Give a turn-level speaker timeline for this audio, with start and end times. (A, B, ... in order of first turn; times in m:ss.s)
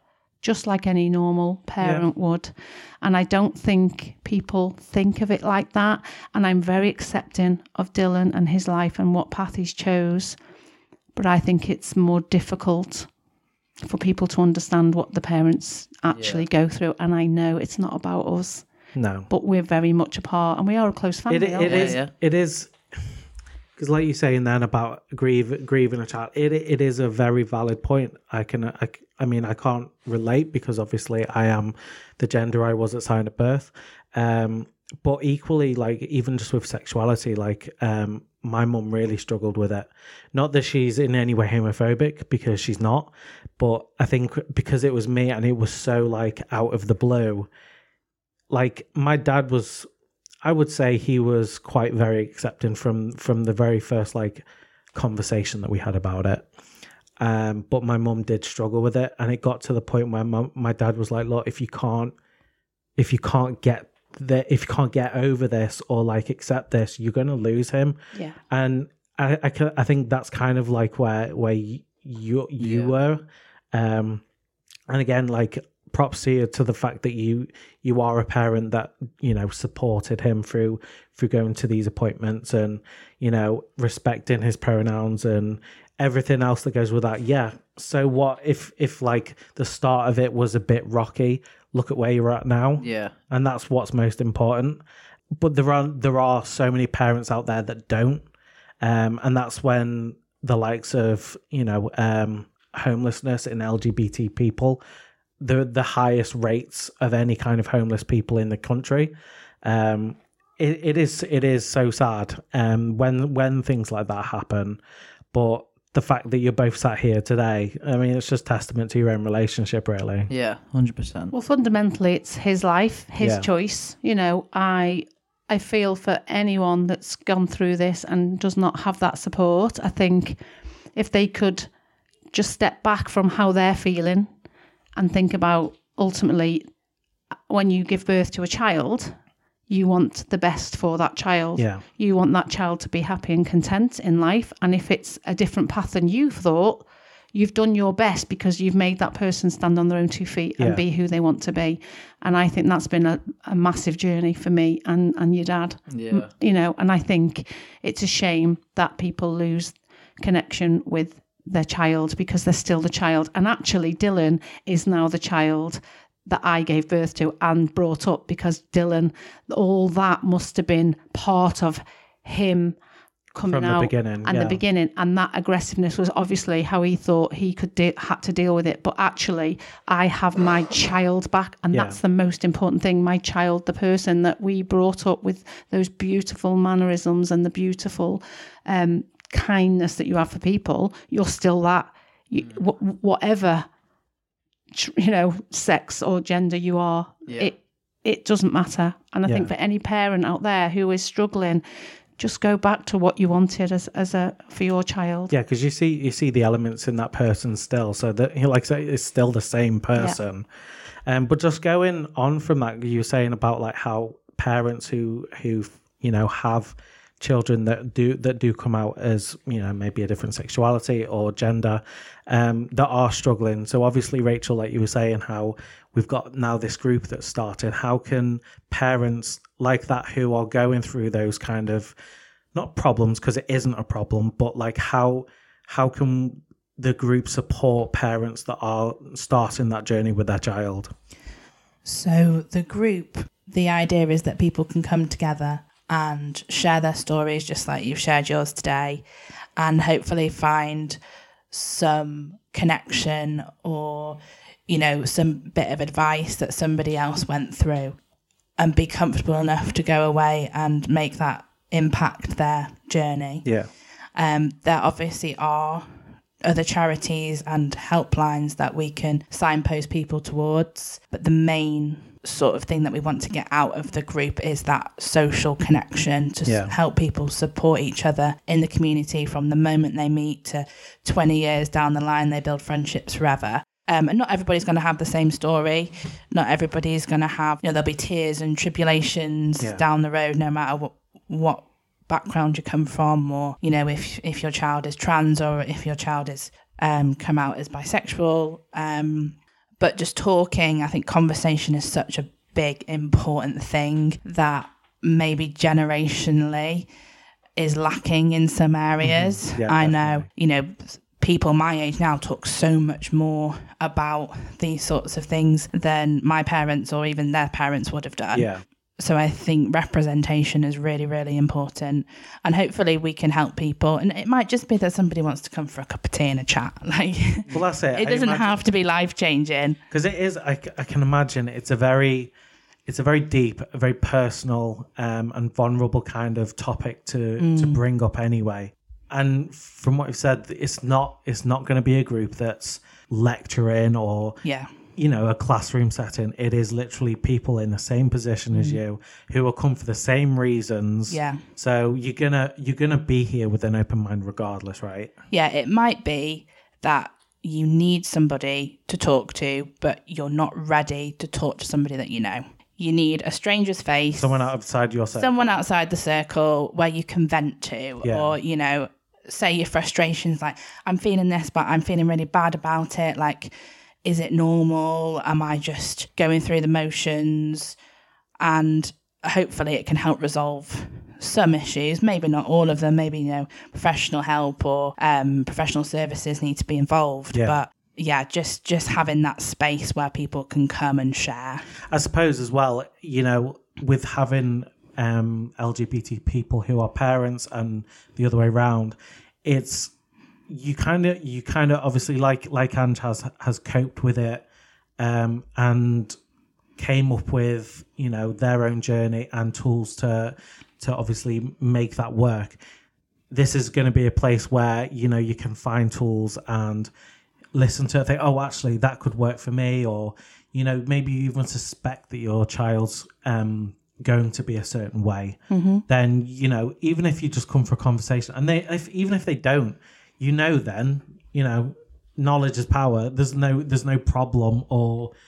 0:00.4-0:10.4 A
0:11.1-0:13.1 A
0:13.8-0:18.7 A
0:16.1-0:16.4 B
0:18.9-0:19.3 C
0:19.3-0:22.0 A
0:21.3-0:22.7 C
0:21.6-0:22.1 B
0:23.8-0:47.5 C
0:48.5-0:49.9 C
0:50.4-0:56.4 C
0:57.2-1:02.1 C
1:03.0-1:08.0 C
1:08.5-1:14.2 C
1:12.6-1:12.9 B
1:14.9-1:34.8 C
1:32.8-1:33.1 B
1:35.4-1:38.2 C
1:38.8-1:44.8 C
1:45.4-1:54.8 C
1:55.3-2:00.3 C
2:00.3-2:01.3 B
2:01.3-2:10.4 A
2:03.2-2:03.5 C
2:11.0-2:11.7 A
2:12.3-2:14.3 A
2:15.0-2:16.6 A
2:17.5-2:19.2 A
2:19.7-2:52.8 A
2:21.6-2:21.8 C
2:35.9-2:36.3 B
2:53.3-3:13.7 A
2:53.5-2:54.6 C
3:01.7-3:02.0 C
3:14.7-3:21.6 A
3:19.2-3:19.5 C
3:22.2-3:25.3 A
3:25.3-3:30.4 C
3:31.0-3:51.9 C
3:52.5-4:00.9 C
4:01.8-4:09.0 D
4:09.6-4:11.0 D
4:11.5-4:18.0 D
4:18.6-4:23.5 D
4:23.4-4:23.7 C
4:24.1-5:06.9 D
4:36.4-4:36.7 C
5:07.6-5:29.8 D
5:09.0-5:10.3 C
5:18.3-5:18.6 C
5:27.5-5:28.6 C
5:29.9-5:32.3 C
5:32.9-5:44.4 C
5:37.4-5:37.8 D
5:44.4-5:44.7 D
5:45.0-5:55.1 C
5:48.5-5:48.8 D
5:51.1-5:51.4 D
5:55.3-6:04.5 D
6:04.2-6:05.6 C
6:05.1-6:17.8 D
6:08.0-6:08.3 C
6:18.4-6:31.7 D
6:31.9-6:39.9 C
6:40.5-6:44.4 C
6:45.0-6:46.2 C
6:46.8-6:52.6 C
6:53.3-6:56.9 C
6:57.5-7:15.1 C
7:05.5-7:05.8 D